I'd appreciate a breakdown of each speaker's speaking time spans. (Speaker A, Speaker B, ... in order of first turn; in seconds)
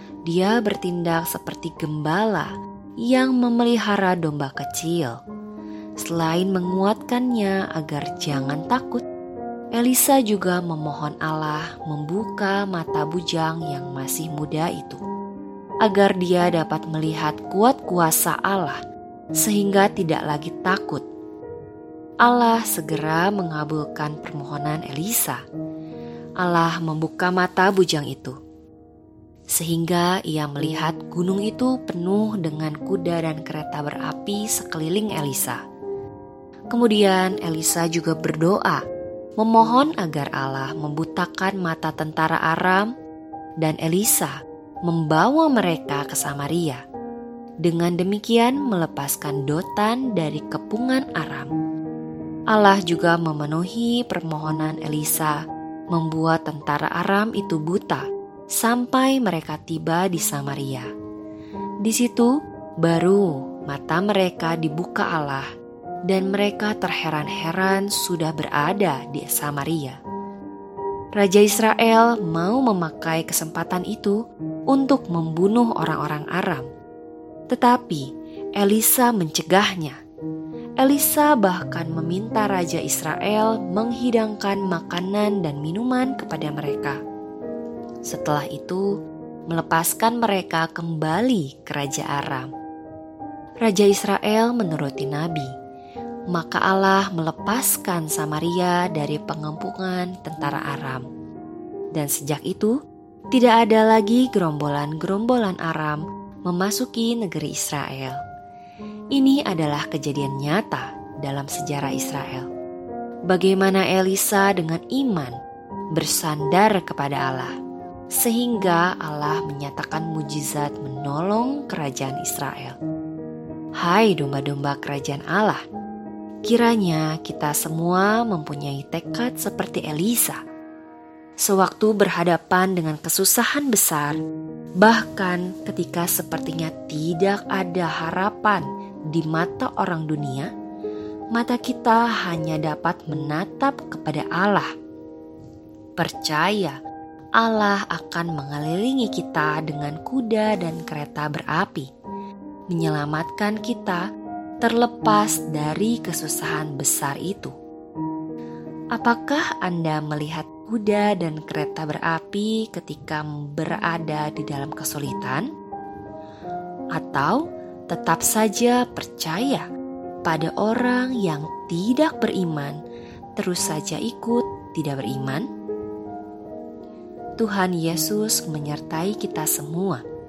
Speaker A: 0.3-2.5, 3.1-5.2, 6.0-9.0, 9.8-15.0, 15.8-18.8, 19.4-21.1, 22.2-25.4, 26.4-28.4, 29.5-35.6, 36.7-38.8, 39.4-42.9, 43.6-46.8, 47.6-51.5, 52.5-55.4, 55.9-58.1, 58.6-60.9, 61.8-65.5, 66.1-70.0, 71.2-74.2, 74.7-76.7, 77.5-80.0, 80.8-87.0, 88.0-88.9, 89.5-92.5, 93.6-95.5, 96.3-101.1, 101.9-102.8, 103.3-108.2, 109.1-112.5, 113.3-115.3, 115.9-117.5, 118.1-122.8, 123.8-125.6, 126.5-130.4, 131.4-134.2, 134.8-140.5, 141.3-144.7, 146.0-146.8, 147.4-151.9, 152.7-154.1, 154.6-157.5, 158.9-165.5, 166.9-169.7, 170.2-172.8, 173.4-175.5, 177.4-180.0